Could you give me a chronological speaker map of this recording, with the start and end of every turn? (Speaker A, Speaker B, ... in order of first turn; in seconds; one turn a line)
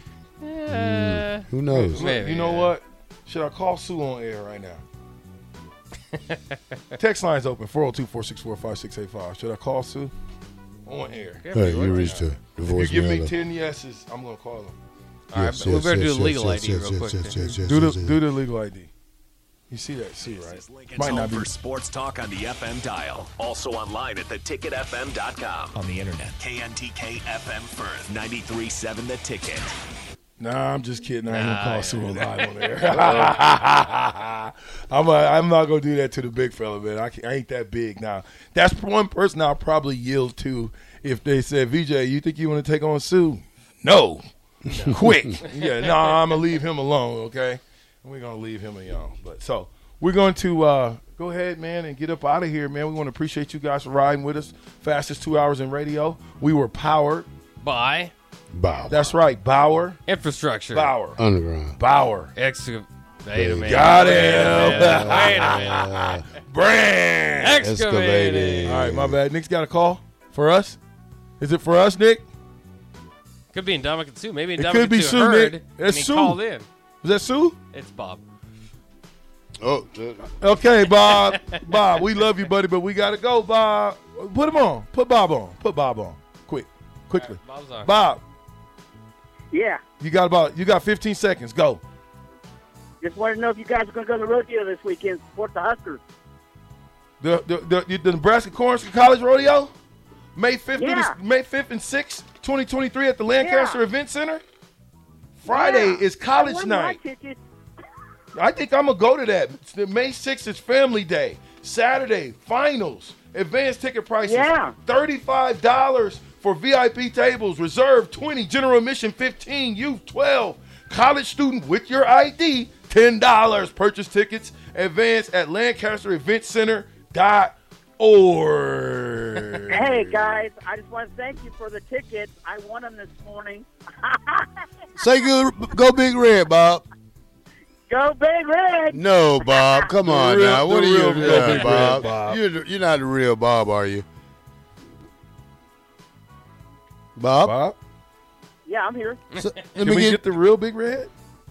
Speaker A: 0.4-2.8
Speaker B: 0.7-2.0
Speaker C: 1.8-4.8
Speaker A: 6.1-6.6
Speaker C: 7.0-10.1
Speaker C: 10.8-11.5
Speaker A: 11.4-12.3
Speaker B: 11.5-13.3
Speaker C: 12.7-14.8
Speaker A: 15.3-17.4
Speaker B: 15.3-18.2
Speaker C: 17.6-18.9
Speaker C: 19.7-21.4
Speaker D: 20.2-29.8
Speaker C: 30.4-44.2
Speaker A: 31.3-32.6
Speaker A: 44.7-45.9
Speaker C: 44.9-57.3
Speaker E: 45.8-46.3
Speaker A: 57.6-58.1
Speaker B: 58.5-59.1
Speaker C: 58.9-60.0
Speaker A: 60.1-60.9
Speaker C: 60.7-61.2
Speaker B: 61.2-61.8
Speaker C: 61.8-62.3
Speaker A: 62.4-66.1
Speaker B: 63.3-66.2
Speaker C: 63.7-65.6
Speaker C: 66.5-67.6
Speaker A: 67.4-68.8
Speaker B: 67.6-69.2
Speaker C: 68.7-70.8
Speaker C: 71.4-72.3
Speaker A: 73.5-76.7
Speaker C: 74.6-76.4
Speaker C: 77.0-77.6
Speaker A: 77.7-78.2
Speaker B: 79.6-80.5
Speaker C: 80.4-88.2
Speaker A: 81.1-81.6
Speaker A: 87.1-87.9
Speaker E: 89.5-89.9
Speaker C: 90.0-91.8
Speaker E: 93.0-96.0
Speaker C: 97.2-99.7
Speaker C: 100.4-104.4
Speaker E: 100.7-101.2
Speaker E: 103.3-103.9
Speaker C: 105.4-107.0
Speaker E: 105.5-107.4
Speaker C: 108.4-130.0
Speaker E: 114.2-114.8
Speaker E: 129.7-134.5
Speaker B: 135.0-136.8
Speaker E: 137.9-139.9
Speaker B: 138.9-144.1
Speaker C: 140.1-142.3
Speaker E: 141.2-141.7
Speaker B: 147.2-147.6
Speaker C: 147.4-147.8
Speaker E: 148.7-149.2
Speaker B: 149.3-150.2
Speaker C: 149.8-151.1